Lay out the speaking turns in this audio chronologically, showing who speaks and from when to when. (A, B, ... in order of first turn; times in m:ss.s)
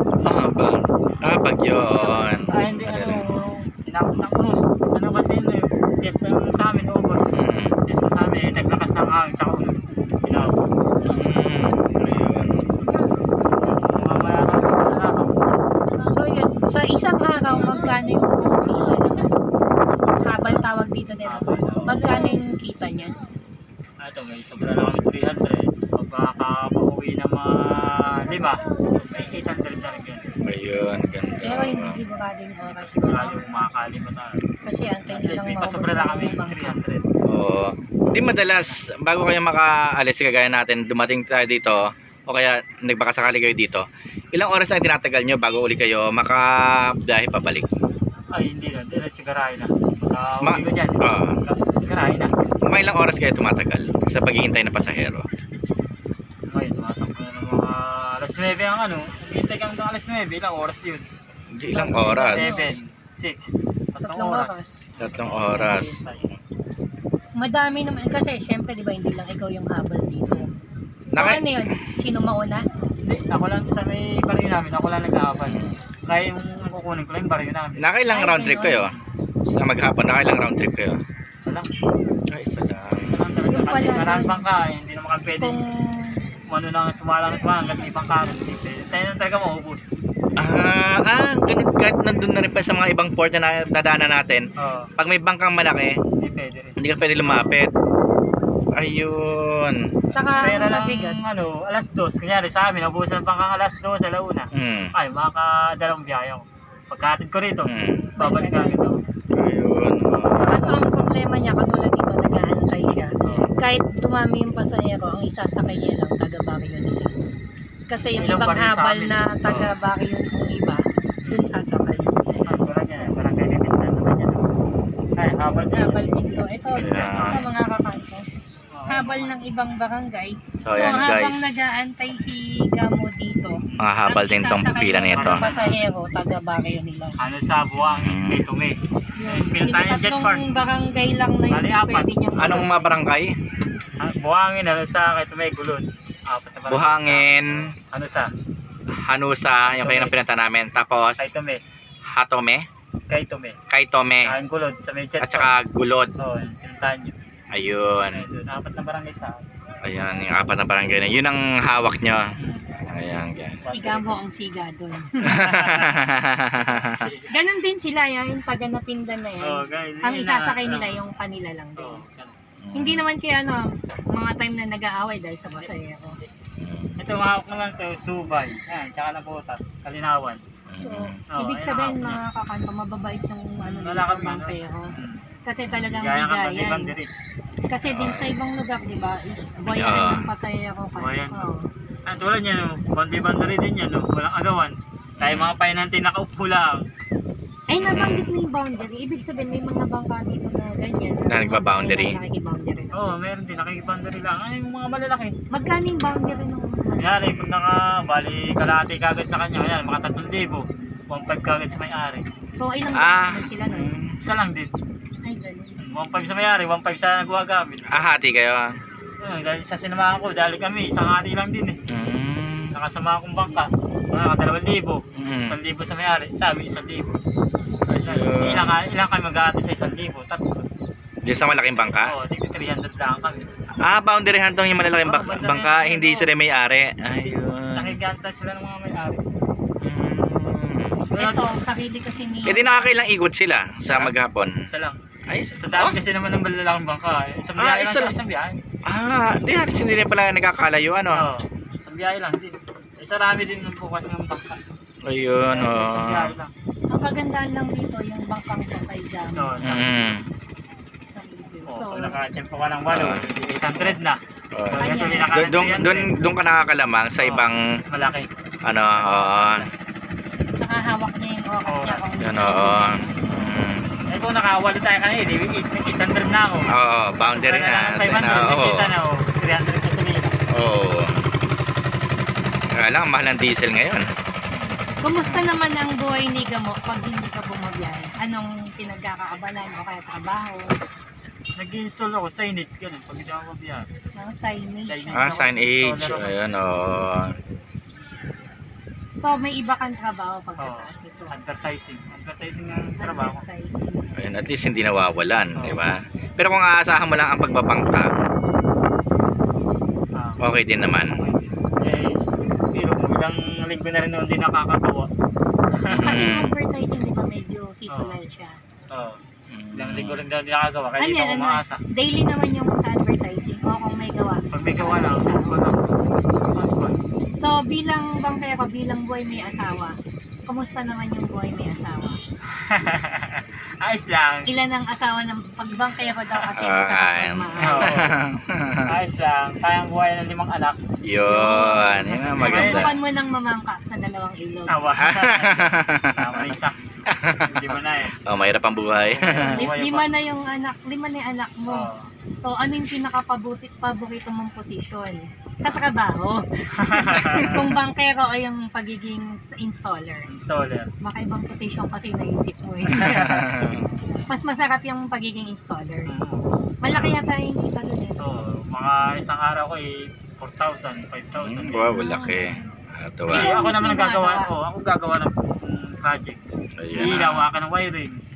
0:00.2-0:03.3 A
0:02.0-0:10.7 B
0:07.4-0:07.8 A
0:11.0-0:12.7 A
0:13.7-0:15.6 B
0:16.1-0:19.5 C
0:20.2-0:23.2 C
0:21.2-0:22.2 B
0:24.0-0:30.3 B
0:30.4-0:32.0 A
0:31.4-0:33.4 C
0:32.6-0:34.5 B
0:34.6-0:36.8 C
0:35.1-0:37.1 B
0:37.3-0:47.6 A
0:48.3-0:52.3 B
0:50.4-0:51.4 A
0:52.7-0:55.3 A
0:56.5-1:01.1 B
1:01.5-1:02.5 A
1:01.7-1:02.8 C
1:01.9-1:06.3 B
1:04.0-1:04.8 C
1:05.0-1:06.0 A
1:07.4-1:10.5 C
1:11.1-1:11.7 A
1:11.2-1:12.6 C
1:13.0-1:17.8 B
1:15.4-1:15.8 A
1:17.8-1:18.9 A
1:18.1-1:18.9 C
1:19.5-1:21.0 A
1:21.4-1:21.7 B
1:22.3-1:23.3 A
1:23.0-1:25.6 B
1:23.5-1:24.5 C
1:25.4-1:26.2 C
1:26.5-1:29.9 B
1:30.4-1:34.5 A
1:34.6-1:34.9 B
1:35.0-1:36.0 A
1:36.2-1:37.4 B
1:36.8-1:37.7 A
1:38.7-1:39.8 A
1:40.1-1:41.2 C
1:40.4-1:49.0 B
1:44.5-1:44.9 A
1:47.7-1:48.1 A
1:48.2-1:48.8 C
1:49.4-1:50.6 A
1:50.1-1:51.1 B
1:50.5-1:57.2 C
1:53.2-1:53.6 B
1:57.9-2:02.2 C
1:58.2-1:59.2 B
2:02.5-2:04.6 B
2:05.2-2:07.4 B
2:05.7-2:08.3 C
2:06.8-2:07.4 A
2:08.7-2:09.4 B
2:08.9-2:17.2 C
2:10.6-2:11.7 A
2:13.6-2:13.9 B
2:13.8-2:15.4 A
2:15.1-2:15.8 B
2:17.2-2:20.5 B
2:17.9-2:18.4 A
2:19.2-2:23.0 C
2:21.5-2:22.6 B
2:22.4-2:23.3 A
2:24.0-2:28.3 B
2:26.7-2:27.7 A
2:28.9-2:31.3 A
2:29.7-2:30.1 B
2:31.2-2:31.6 B
2:32.1-2:32.7 A
2:33.1-2:33.6 B
2:33.7-2:34.4 A
2:34.2-2:35.5 B
2:35.2-2:36.1 A
2:36.2-2:37.2 B
2:37.5-2:38.2 A
2:38.1-2:39.4 B
2:39.8-2:42.2 A
2:42.4-2:42.7 B
2:42.9-2:43.6 A
2:43.6-2:44.2 B
2:43.7-2:45.5 C
2:45.2-2:46.0 B
2:45.2-2:46.9 A
2:46.6-2:47.4 B
2:47.3-2:52.0 C
2:49.4-2:51.0 B
2:51.8-2:52.4 B
2:52.6-2:53.1 A
2:52.8-2:56.2 C
2:56.6-2:57.0 A
2:57.0-3:00.4 B
3:00.7-3:01.2 A
3:00.8-3:06.9 C
3:01.3-3:02.2 B
3:03.6-3:05.3 B
3:06.0-3:07.1 B
3:07.7-3:11.7 C
3:07.9-3:08.3 A
3:09.7-3:10.3 A
3:11.0-3:11.5 B
3:12.1-3:16.8 B
3:15.2-3:15.5 A
3:17.7-3:23.0 C
3:17.8-3:18.3 A
3:21.3-3:22.2 A
3:22.9-3:25.4 B
3:25.5-3:27.3 C
3:27.0-3:32.3 B
3:32.6-3:33.9 C
3:32.9-3:34.1 A
3:33.7-3:34.7 B
3:35.2-3:35.8 C
3:35.8-3:38.1 B
3:37.9-3:38.7 A
3:39.2-3:41.8 B
3:41.9-3:42.7 A
3:42.7-3:47.2 B
3:45.2-3:45.6 A
3:47.9-3:48.7 A
3:48.0-3:50.7 B
3:51.2-3:52.1 A
3:51.7-3:53.5 B
3:53.8-3:58.0 A
3:54.9-3:56.3 B
3:57.8-3:59.2 B
3:59.8-4:01.0 A
4:01.1-4:01.5 B
4:01.1-4:02.9 C
4:02.4-4:04.7 A
4:03.9-4:04.1 B
4:04.7-4:05.0 B
4:05.3-4:06.0 A
4:05.6-4:08.6 B
4:07.6-4:08.1 A
4:08.8-4:11.2 A
4:11.1-4:14.6 B
4:15.0-4:16.3 A
4:15.5-4:16.5 B
4:16.9-4:19.6 C
4:19.3-4:19.9 B
4:19.6-4:20.2 A
4:21.1-4:22.2 C
4:21.7-4:26.2 B
4:22.9-4:23.3 A
4:24.5-4:27.6 A
4:24.8-4:25.4 C
4:27.2-4:28.3 B
4:28.7-4:29.7 A
4:29.0-4:29.7 B
4:30.6-4:33.1 C
4:31.7-4:32.2 B
4:32.2-4:34.0 A
4:33.3-4:36.7 B
4:36.7-4:38.9 A
4:37.3-4:40.4 B
4:40.5-4:41.2 A
4:42.7-4:44.1 A
4:45.0-4:50.7 C
4:51.6-4:53.9 B
4:54.2-4:55.3 C
4:54.8-4:56.4 B
4:55.2-4:57.4 A
4:59.2-5:01.3 C
5:00.6-5:03.4 B
5:03.0-5:04.1 C
5:04.2-5:08.2 A
5:05.6-5:05.9 B
5:10.2-5:10.4 B
5:10.4-5:11.3 A
5:11.0-5:15.1 B
5:15.8-5:16.3 B
5:15.9-5:16.5 A
5:16.0-5:18.6 C
5:17.9-5:18.2 B
5:18.9-5:19.2 B
5:19.5-5:20.3 A
5:19.8-5:21.8 B
5:21.0-5:25.6 C
5:24.5-5:25.8 B
5:26.4-5:27.0 B
5:27.3-5:32.2 C
5:32.6-5:34.5 B
5:34.5-5:38.0 C
5:36.6-5:38.9 A
5:37.6-5:38.2 B
5:38.9-5:40.8 B
5:41.0-5:42.9 A
5:41.2-5:44.8 C
5:42.0-5:42.9 B
5:44.7-5:48.2 B
5:45.0-5:46.4 A
5:47.1-5:47.7 A
5:48.2-5:49.7 A
5:49.0-5:50.1 B
5:49.4-6:00.3 C
5:51.7-5:52.1 B
5:56.8-5:57.6 B
6:00.3-6:00.9 B
6:01.0-6:03.6 C
6:02.9-6:03.3 B
6:03.0-6:03.8 A
6:04.3-6:06.1 C
6:06.1-6:07.2 B
6:06.8-6:08.2 C
6:08.2-6:12.0 B
6:11.3-6:13.5 A
6:11.9-6:12.7 C
6:13.3-6:16.4 B
6:13.3-6:14.5 C
6:16.8-6:17.4 A
6:16.9-6:18.2 B